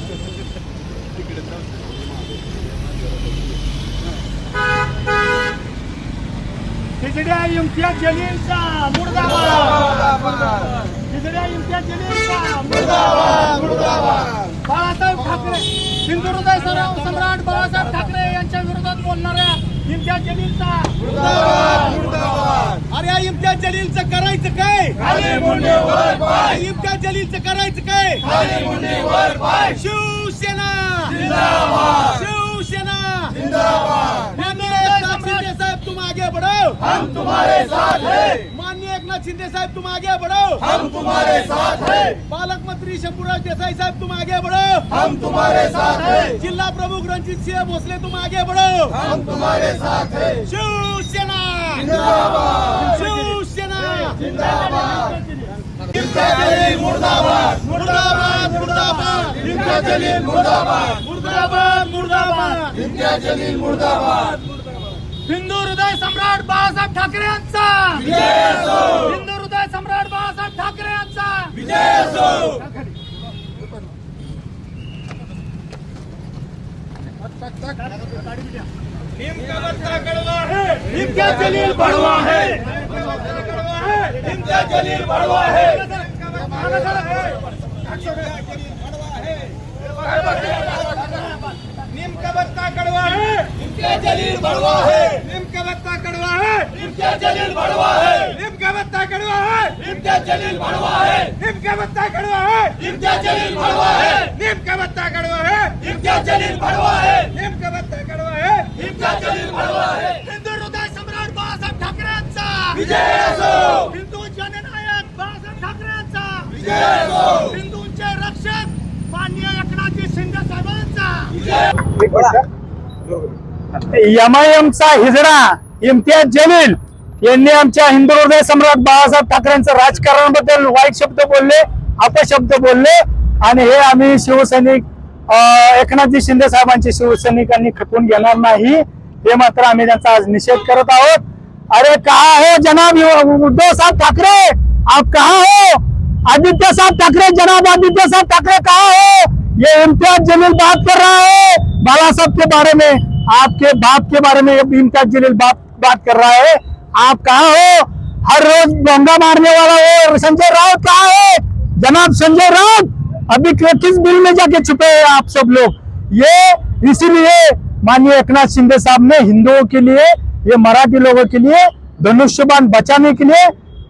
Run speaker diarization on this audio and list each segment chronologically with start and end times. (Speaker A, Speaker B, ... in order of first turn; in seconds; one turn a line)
Speaker A: 7.0-9.9
Speaker A: 11.1-13.5
Speaker B: 13.2-13.6
Speaker A: 14.6-21.0
Speaker B: 20.9-22.2
Speaker B: 22.8-55.1
Speaker A: 34.4-35.4
Speaker B: 55.9-64.0
Speaker A: 61.7-62.7
Speaker A: 65.2-71.7
Speaker B: 71.9-72.4
Speaker B: 79.5-82.8
Speaker B: 83.5-87.3
Speaker A: 86.6-87.0
Speaker B: 92.0-108.9
Speaker A: 108.9-121.5
Speaker C: 122.0-122.4
Speaker C: 123.9-173.5